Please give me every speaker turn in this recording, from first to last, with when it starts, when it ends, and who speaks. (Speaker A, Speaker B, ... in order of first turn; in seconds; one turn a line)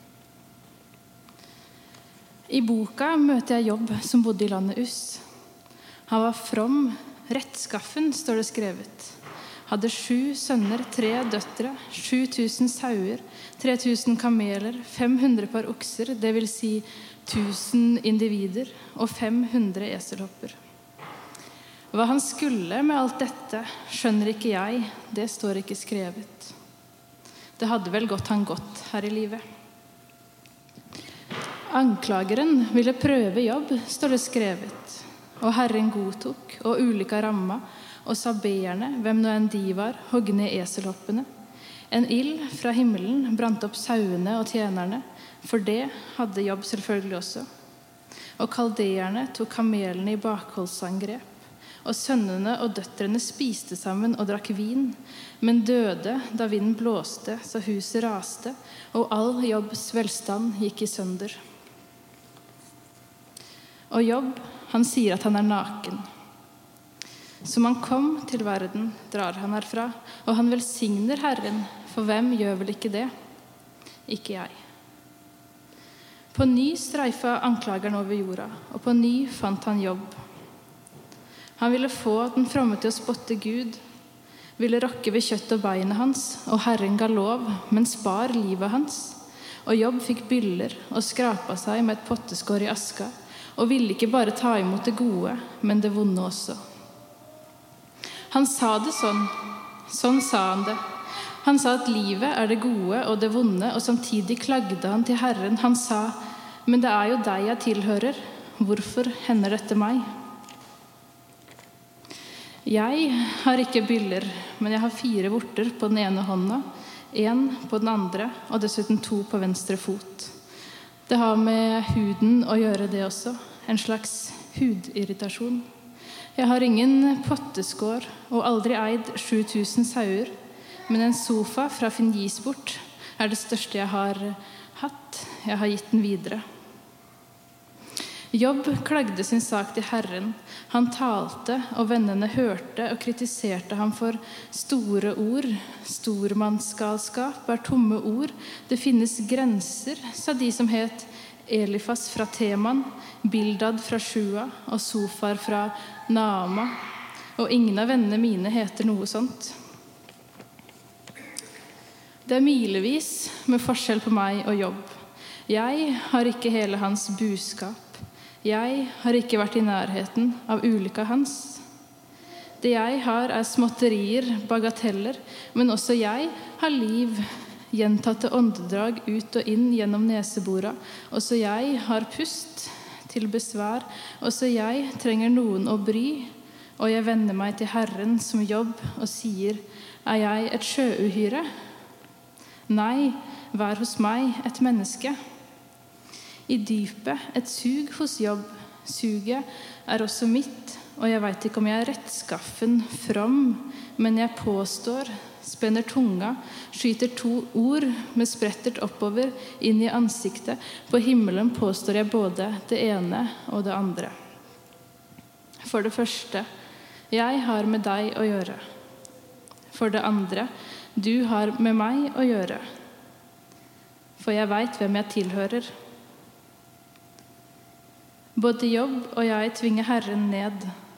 Speaker A: 2.5-5.2
Speaker A: 6.1-20.6
Speaker A: 21.9-26.5
Speaker A: 27.6-29.4
Speaker A: 31.7-41.3
Speaker A: 41.9-47.5
Speaker A: 48.4-61.4
Speaker A: 63.9-66.1
Speaker A: 67.4-73.1
Speaker A: 74.1-74.6
Speaker A: 76.3-80.2
Speaker A: 81.6-83.8
Speaker A: 84.6-96.6
Speaker A: 98.3-100.8
Speaker A: 101.4-110.1
Speaker A: 112.7-120.3
Speaker A: 121.1-125.7
Speaker A: 126.4-130.3
Speaker A: 130.9-136.4
Speaker A: 138.3-156.8
Speaker A: 157.4-159.6
Speaker A: 162.2-164.9
Speaker A: 165.5-171.6
Speaker A: 172.6-191.5
Speaker A: 192.7-195.2
Speaker A: 196.5-214.2
Speaker A: 215.6-216.5
Speaker A: 217.1-218.6
Speaker A: 219.7-222.7
Speaker A: 224.2-225.7
Speaker A: 228.4-230.7